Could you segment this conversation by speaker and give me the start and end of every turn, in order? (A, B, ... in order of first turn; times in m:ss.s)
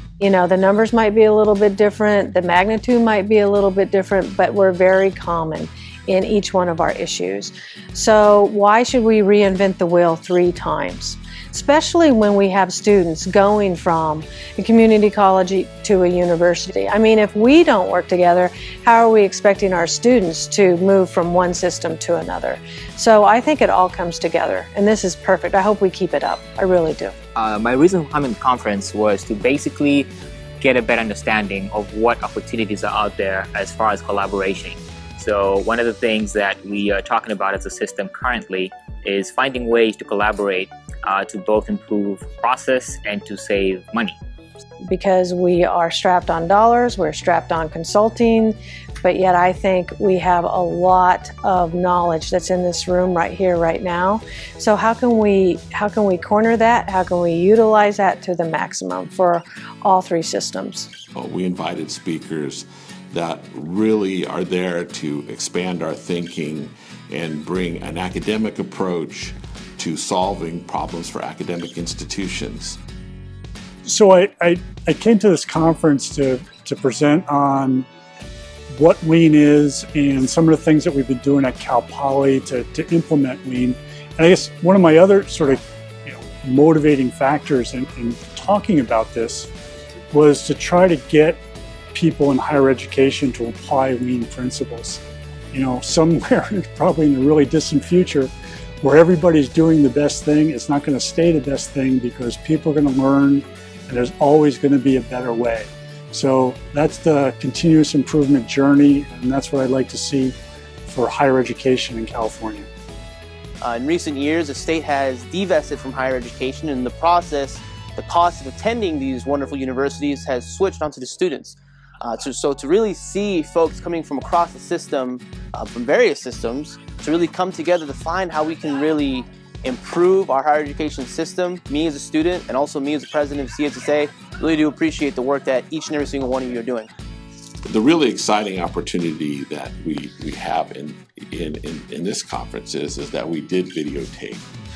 0:00.2-0:27.1 A
0:27.4-0:30.1 B
0:30.6-0:44.2 B
0:44.9-1:00.9 A
1:01.2-1:12.8 C
1:13.8-1:17.9 D
1:18.7-1:29.5 D
1:30.1-1:31.4 D
1:31.9-1:50.4 D
1:50.9-1:52.7 D
1:53.6-2:16.9 E
2:17.7-2:24.5 C